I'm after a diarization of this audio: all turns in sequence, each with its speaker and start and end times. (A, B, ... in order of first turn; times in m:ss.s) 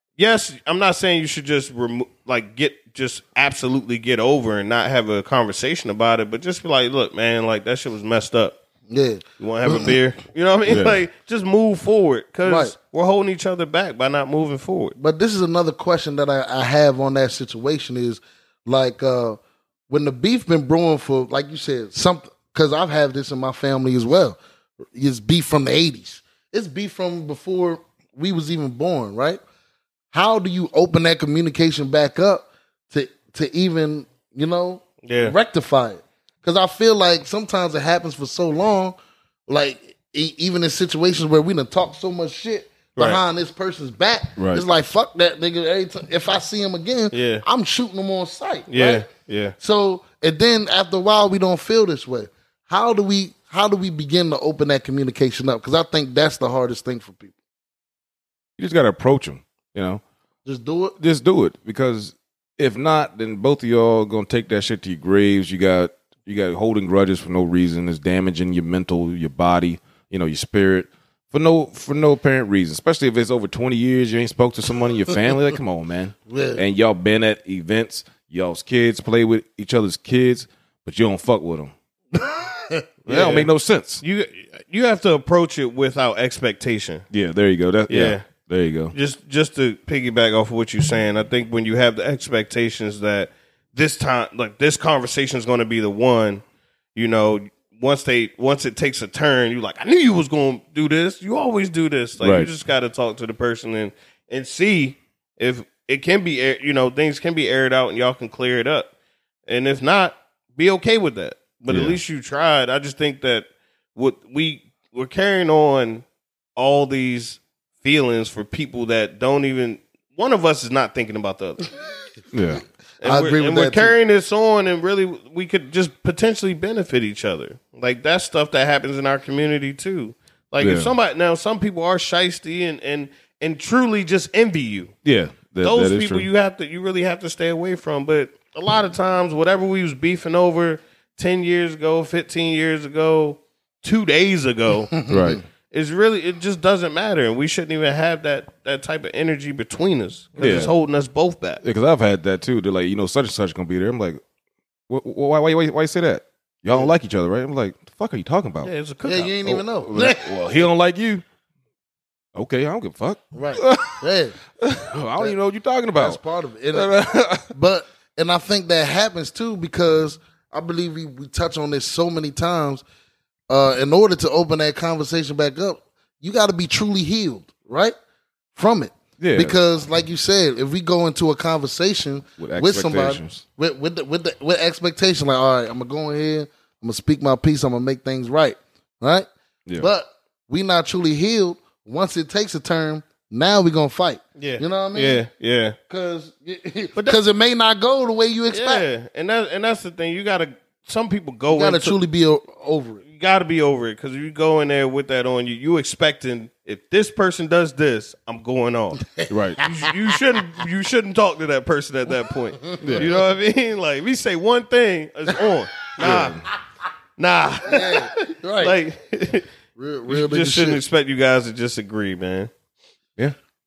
0:00.2-0:08.6 A
0:08.9-0:10.0 B
0:09.4-0:14.9 A
0:10.7-0:11.0 C
0:12.4-0:12.7 B
0:15.0-0:24.4 B
0:24.9-0:29.4 B
0:30.1-0:49.1 B
0:35.0-0:35.4 A
0:43.0-0:43.2 A
0:44.4-0:44.6 C
0:47.1-0:47.4 A
0:48.7-0:49.6 A
0:49.6-0:57.3 B
0:58.6-1:00.0 C
1:00.4-1:00.9 B
1:01.0-1:21.7 C
1:16.3-1:16.6 B
1:22.1-1:22.8 B
1:23.0-1:24.0 C
1:23.1-1:23.5 A
1:24.0-1:27.0 A
1:27.1-1:28.9 C
1:27.9-1:28.2 A
1:28.9-1:36.4 A
1:36.9-1:48.9 A
1:42.2-1:42.5 C
1:49.5-2:01.6 A
1:51.7-1:52.0 C
2:02.3-2:02.6 C
2:03.0-2:03.9 B
2:03.0-2:14.9 A
2:10.6-2:10.9 C
2:15.0-2:16.3 C
2:15.6-2:25.0 A
2:25.0-2:25.4 B
2:25.1-2:25.4 C
2:25.7-2:31.6 A
2:30.4-2:30.7 C
2:31.6-2:34.2 C
2:34.9-2:38.7 C
2:38.6-2:39.4 A
2:39.0-2:40.3 B
2:39.4-2:41.2 C
2:42.3-2:44.0 C
2:43.3-2:44.4 B
2:44.6-2:46.2 C
2:45.9-2:46.9 B
2:46.7-2:47.5 C
2:47.5-2:52.8 B
2:53.5-2:57.9 B
2:58.5-3:15.2 B
2:59.2-2:59.5 C
3:02.4-3:03.4 C
3:14.4-3:15.8 A
3:15.9-3:18.8 B
3:18.5-3:22.0 A
3:21.5-3:23.0 B
3:23.1-3:29.0 A
3:29.0-3:29.9 B
3:29.3-3:29.6 C
3:29.6-3:36.4 A
3:32.6-3:33.2 B
3:32.8-3:33.1 C
3:36.0-3:36.5 C
3:37.2-3:39.5 A
3:37.6-3:38.8 B
3:39.8-3:40.8 B
3:40.1-3:42.5 A